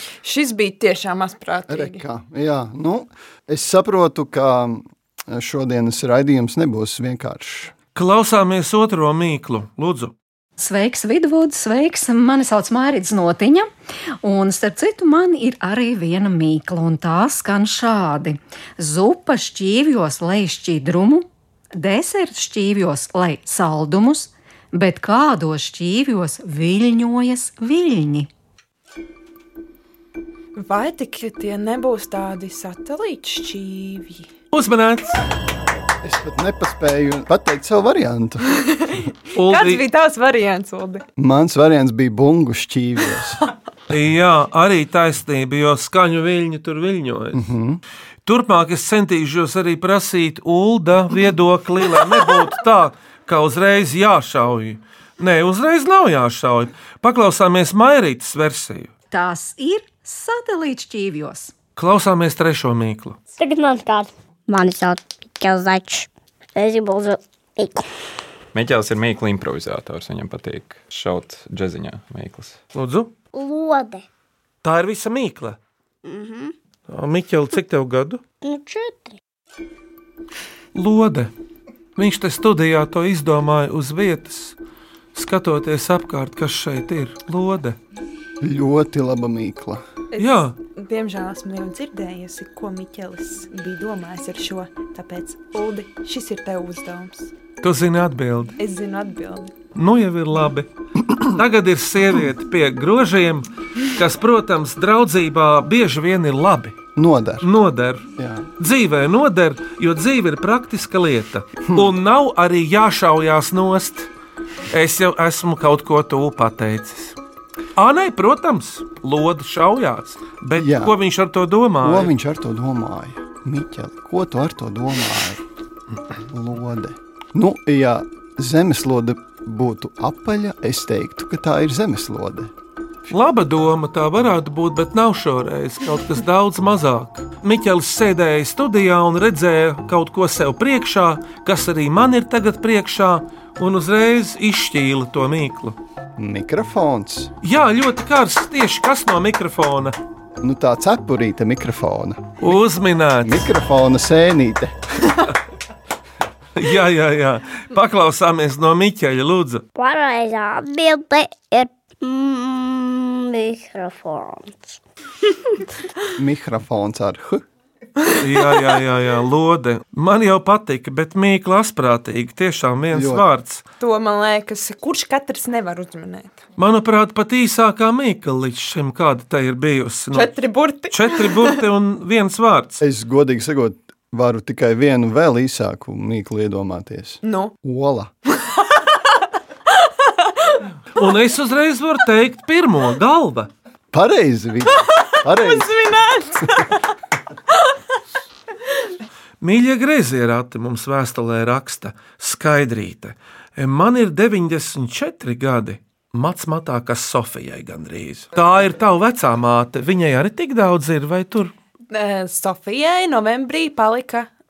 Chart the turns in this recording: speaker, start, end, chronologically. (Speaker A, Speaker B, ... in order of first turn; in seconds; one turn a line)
Speaker A: 0.2-2.0
Speaker B: 1.7-7.7
Speaker C: 7.9-10.1
Speaker D: 10.6-13.7
Speaker D: 14.2-28.3
Speaker A: 30.6-34.3
Speaker C: 34.5-35.2
Speaker B: 36.0-38.5
Speaker A: 38.5-41.0
Speaker C: 39.3-39.8
Speaker B: 41.2-43.4
Speaker C: 43.9-47.4
Speaker B: 47.3-47.8
Speaker C: 48.2-58.9
Speaker D: 59.1-61.5
Speaker C: 61.8-63.2
Speaker E: 63.4-67.8
Speaker F: 68.5-72.6
Speaker C: 72.7-73.1
Speaker E: 73.3-74.0
Speaker C: 74.6-75.6
Speaker E: 76.0-76.5
Speaker C: 76.9-78.2
Speaker E: 78.4-79.2
Speaker C: 80.7-81.3
Speaker C: 82.0-84.5
Speaker C: 85.1-87.8
Speaker B: 88.4-89.8
Speaker A: 90.1-97.3
Speaker C: 90.2-90.5
Speaker C: 97.6-98.5
Speaker A: 98.6-99.5
Speaker C: 99.7-106.8
Speaker B: 107.0-107.5
Speaker C: 107.4-108.0
Speaker B: 108.2-108.5
Speaker C: 108.6-114.1
Speaker B: 111.7-111.9
Speaker C: 114.7-117.2
Speaker C: 117.8-122.1
Speaker B: 120.6-121.0
Speaker B: 121.8-125.4
Speaker B: 126.3-132.5
Speaker C: 133.1-145.8
Speaker B: 146.2-147.3
Speaker C: 147.4-149.9
Speaker B: 150.4-152.4
Speaker C: 152.4-153.5
Speaker B: 153.2-155.2
Speaker C: 156.5-159.6
Speaker E: 159.7-164.8
Speaker B: 166.1-167.4
Speaker C: 168.1-173.6
Speaker B: 172.9-173.2
Speaker A: 173.8-176.4
Speaker C: 176.6-180.3
Speaker A: 180.1-181.6
Speaker C: 180.9-182.8
Speaker B: 182.8-188.1
Speaker A: 187.2-187.5
Speaker A: 188.4-188.8
Speaker A: 190.2-190.6
Speaker C: 190.9-193.5
Speaker B: 193.9-195.7
Speaker A: 194.8-196.8
Speaker C: 199.4-211.5
Speaker A: 211.9-214.3